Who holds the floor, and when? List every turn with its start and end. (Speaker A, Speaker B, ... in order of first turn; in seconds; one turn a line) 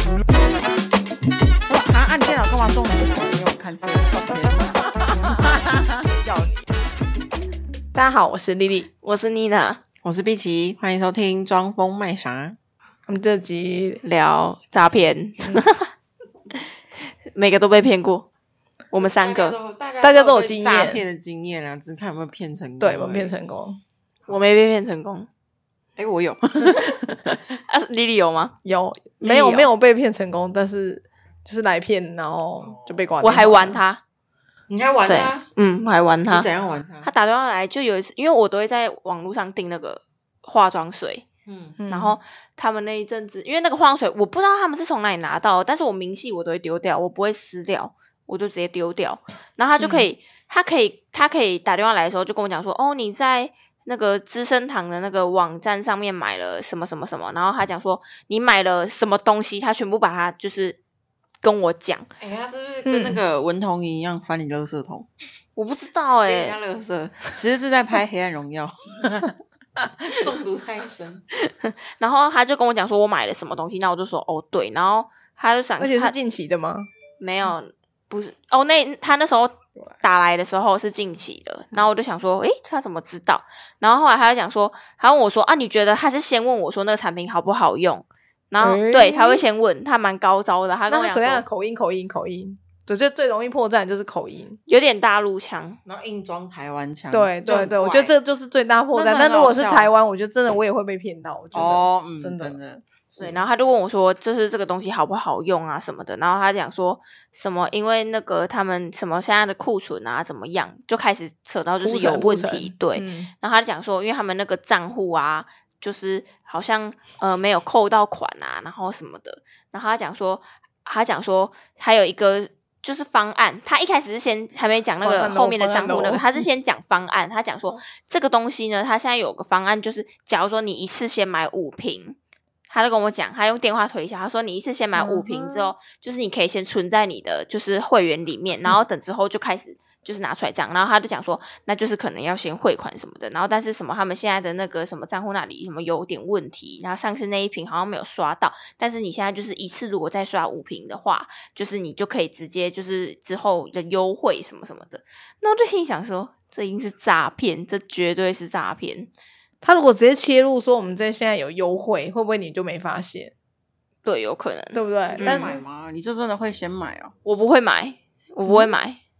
Speaker A: 1.7-6.1
Speaker B: 5.1-5.4
Speaker B: 6.0-6.7
Speaker B: 7.9-8.9
Speaker C: 9.0-9.8
Speaker A: 10.0-12.6
Speaker B: 13.1-14.0
Speaker C: 14.0-15.9
Speaker C: 17.3-18.2
Speaker C: 18.9-19.5
Speaker A: 19.0-23.3
Speaker B: 20.0-21.0
Speaker B: 22.8-23.8
Speaker C: 24.3-25.3
Speaker A: 25.9-27.4
Speaker C: 27.3-28.5
Speaker B: 28.6-33.8
Speaker C: 29.2-29.7
Speaker C: 33.2-34.0
Speaker A: 34.7-35.4
Speaker C: 35.0-36.5
Speaker A: 36.3-37.1
Speaker C: 37.0-41.2
Speaker A: 41.5-41.8
Speaker B: 41.8-42.1
Speaker C: 41.9-60.8
Speaker B: 49.8-50.0
Speaker C: 61.4-62.1
Speaker A: 62.2-65.1
Speaker B: 62.9-63.2
Speaker C: 65.5-66.6
Speaker A: 66.2-71.2
Speaker C: 71.4-76.1
Speaker B: 75.8-76.9
Speaker C: 77.2-91.4
Speaker B: 88.6-89.4
Speaker B: 90.9-94.6
Speaker C: 94.7-95.8
Speaker A: 95.8-98.1
Speaker B: 97.1-102.6
Speaker A: 98.9-99.9
Speaker A: 101.5-103.4
Speaker C: 103.2-132.2
Speaker B: 111.8-113.3
Speaker B: 125.0-126.4
Speaker C: 132.7-159.1
Speaker B: 134.9-135.7
Speaker B: 159.6-163.3
Speaker C: 164.0-165.5
Speaker B: 164.7-165.6
Speaker A: 165.1-167.1
Speaker C: 167.2-169.0